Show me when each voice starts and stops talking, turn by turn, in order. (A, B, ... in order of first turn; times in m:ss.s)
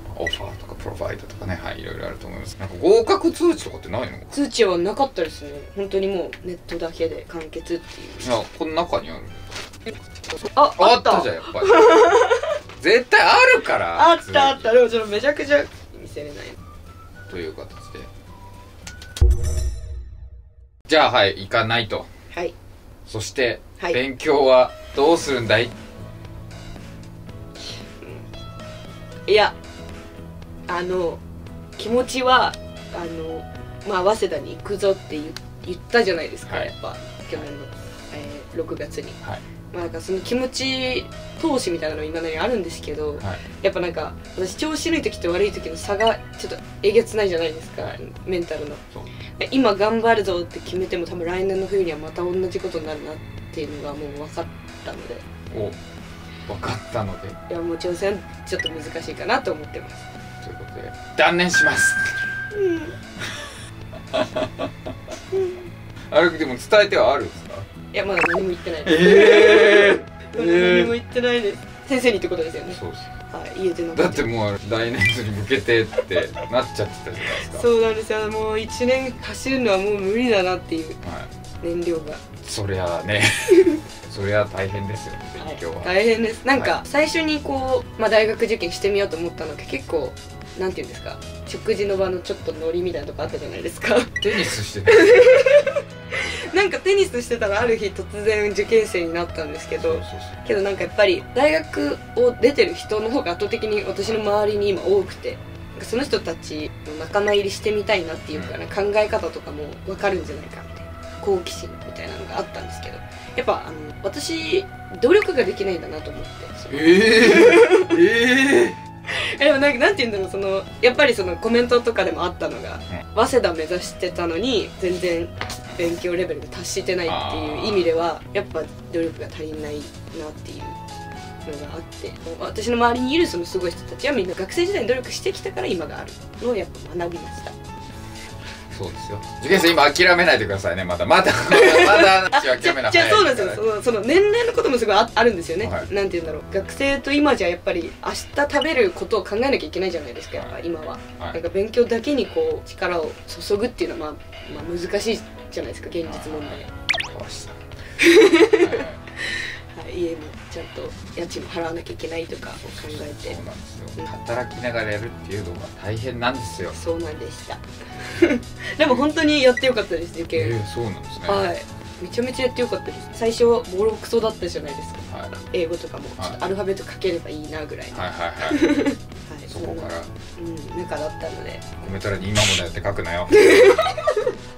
0:00.1-0:04.3 A
0:04.3-0:08.3 B
0:08.2-0:09.5 A
0:10.6-0:12.5 B
0:10.8-0:12.1 A
0:12.8-0:14.7 A
0:14.0-0:16.6 B
0:17.3-0:18.1 A
0:20.9-0:22.1 A
0:23.1-0:25.7 A
0:27.7-0:28.2 B
0:29.3-0:29.6 B
0:30.7-0:31.2 B
0:31.8-0:39.2 B
0:39.7-0:48.8 B
0:49.4-0:55.2 B
0:55.5-0:55.8 A
0:56.5-0:57.4 A
0:57.5-1:00.0 B
1:00.4-1:02.2 A
1:02.5-1:02.9 B
1:04.1-1:04.7 A
1:06.1-1:07.7 A
1:07.9-1:12.8 B
1:08.8-1:10.9 A
1:12.7-1:13.1 A
1:13.3-1:14.3 B
1:14.0-1:17.7 A
1:17.4-1:21.0 B
1:21.0-1:21.3 A
1:21.6-1:22.2 B
1:22.4-1:25.9 A
1:25.4-1:58.0 B
1:34.2-1:35.5 A
1:36.2-1:36.5 A
1:39.8-1:40.4 A
1:56.7-1:58.8 A
1:59.1-2:10.8 B
2:07.1-2:07.9 A
2:11.4-2:17.6 B
2:18.7-2:23.6 A
2:21.5-2:36.7 B
2:25.6-2:25.9 A
2:36.0-2:37.7 A
2:38.0-2:43.4 B
2:38.2-2:39.0 A
2:42.6-2:46.8 A
2:46.7-2:50.6 B
2:50.4-2:51.5 A
2:51.3-3:01.8 B
2:55.1-2:55.3 A
2:57.9-2:58.7 A
2:59.5-3:00.1 A
3:01.8-3:03.9 A
3:03.3-3:04.4 B